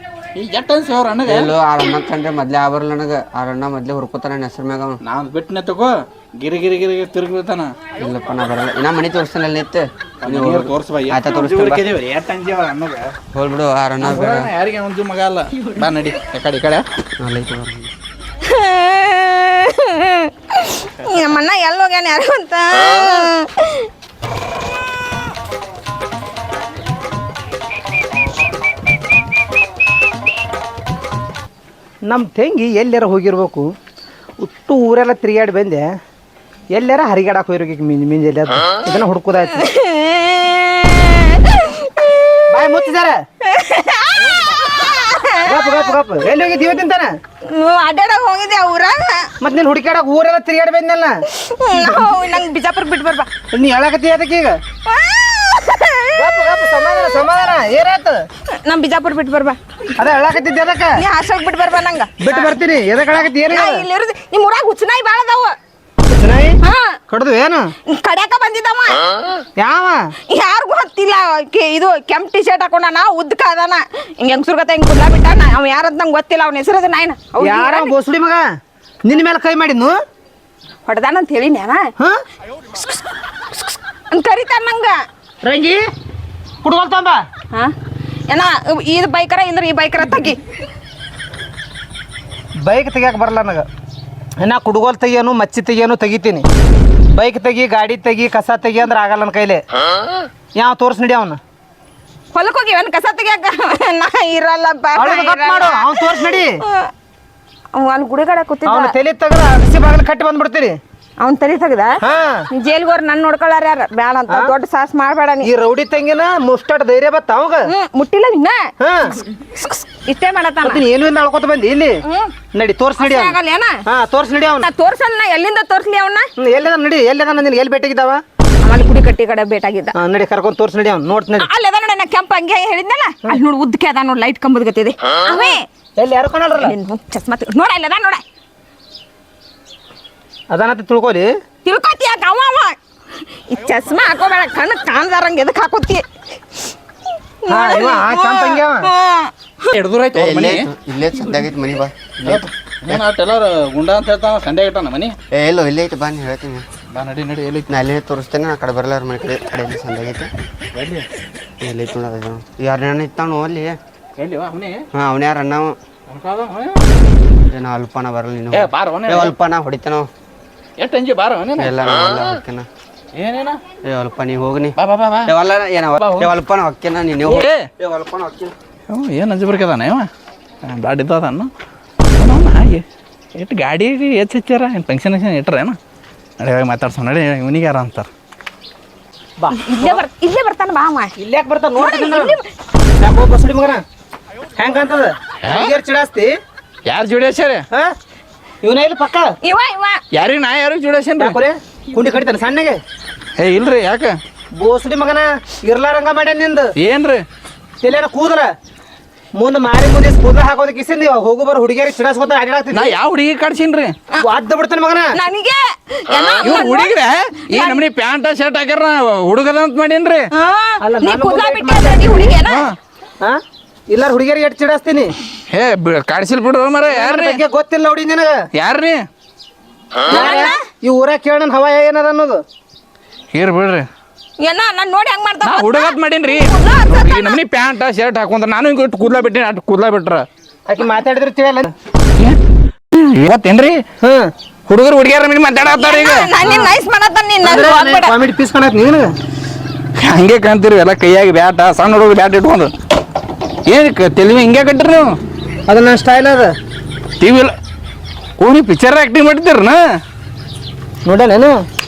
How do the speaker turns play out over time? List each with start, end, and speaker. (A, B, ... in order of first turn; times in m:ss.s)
0:00.4-0:01.5 A
0:01.3-0:05.0 B
0:05.0-0:07.8 A
0:08.0-0:11.9 B
0:10.2-0:13.1 A
0:13.3-0:14.5 B
0:14.0-0:16.8 A
0:17.2-0:17.9 B
0:18.4-0:23.9 C
0:32.0-0:33.7 D
0:34.4-0:36.0 D
0:36.7-0:39.6 D
0:39.5-0:42.8 C
0:42.5-0:43.2 D
0:43.4-0:45.9 C
0:45.4-0:47.2 D
0:47.4-0:49.3 C
0:49.4-0:52.4 D
0:51.3-0:53.3 C
0:53.5-0:54.6 D
0:54.9-0:56.4 C
0:56.2-0:58.3 D
0:58.5-0:59.6 C
1:00.0-1:01.0 D
1:01.0-1:02.5 C
1:02.2-1:03.8 D
1:03.5-1:05.6 C
1:06.1-1:06.6 D
1:06.6-1:07.0 C
1:07.1-1:07.7 D
1:07.8-1:09.0 C
1:09.6-1:10.1 D
1:10.3-1:17.9 C
1:17.4-1:18.5 D
1:19.0-1:20.0 D
1:20.8-1:21.9 C
1:22.7-1:25.0 C
1:25.4-1:25.9 D
1:26.6-1:27.2 D
1:28.3-1:30.4 C
1:32.6-1:33.7 D
1:34.4-1:36.5 D
1:37.1-1:39.6 D
1:40.6-1:41.4 D
1:42.3-1:46.9 C
1:45.0-1:46.6 D
1:47.7-1:48.9 C
1:48.7-1:50.8 D
1:51.2-1:52.0 C
1:52.0-1:52.5 D
1:52.5-1:55.5 C
1:55.4-1:57.7 D
1:57.7-2:00.8 C
1:58.8-1:59.2 D
2:00.6-2:02.0 D
2:02.0-2:02.3 C
2:02.5-2:04.7 D
2:03.0-2:03.8 C
2:04.6-2:06.3 C
2:06.4-2:08.2 D
2:08.6-2:10.0 C
2:10.0-2:11.5 D
2:11.4-2:15.6 C
2:16.0-2:16.7 D
2:16.6-2:18.2 C
2:20.5-2:21.3 D
2:21.6-2:22.8 C
2:23.5-2:26.0 C
2:27.4-2:29.3 C
2:27.5-2:28.9 D
2:29.7-2:30.7 A
2:30.1-2:33.0 B
2:32.3-2:35.2 A
2:35.3-2:36.7 B
2:36.9-2:37.7 A
2:37.7-2:40.3 B
2:40.7-2:41.1 A
2:41.6-2:43.8 B
2:44.2-2:44.8 A
2:44.9-2:45.8 B
2:46.1-2:46.8 A
2:47.5-2:50.1 B
2:48.5-2:49.3 A
2:50.8-2:51.8 A
2:51.6-2:52.7 B
2:53.1-2:53.6 A
2:53.8-2:58.5 B
2:54.8-2:55.3 A
2:56.0-2:56.3 A
2:57.2-2:57.7 A
2:58.9-3:00.1 A
3:00.6-3:01.5 A
3:02.2-3:05.8 A
3:06.4-3:08.1 A
3:09.4-3:10.0 D
3:09.5-3:11.1 C
3:11.2-3:12.4 D
3:11.8-3:12.4 C
3:13.0-3:13.8 D
3:14.6-3:16.4 D
3:15.4-3:15.7 A
3:16.9-3:17.6 A
3:18.6-3:19.3 D
3:19.4-3:20.0 C
3:20.1-3:21.4 A
3:21.2-3:22.8 D
3:23.4-3:24.2 A
3:24.5-3:26.7 D
3:26.8-3:27.2 A
3:27.8-3:28.5 D
3:29.4-3:33.0 D
3:32.7-3:34.0 A
3:34.2-3:35.2 D
3:35.1-3:37.0 C
3:36.4-3:40.3 A
3:37.5-3:37.8 C
3:40.3-3:42.7 C
3:40.8-3:42.4 D
3:42.4-3:42.8 A
3:43.2-3:45.2 D
3:45.5-3:47.4 A
3:46.9-3:48.4 D
3:48.6-3:49.1 A
3:50.1-3:50.6 C
3:50.1-3:52.4 D
3:53.3-3:53.9 A
3:54.4-3:57.4 C
3:55.4-4:00.3 A
4:00.7-4:01.7 D
4:02.9-4:03.8 A
4:04.0-4:04.3 D
4:04.7-4:06.3 A
4:05.8-4:08.2 C
4:06.4-4:06.7 D
4:07.4-4:09.1 D
4:10.0-4:12.7 A
4:13.7-4:15.2 A
4:15.7-4:16.6 D
4:17.2-4:17.6 A
4:18.4-4:19.8 A
4:21.0-4:21.6 D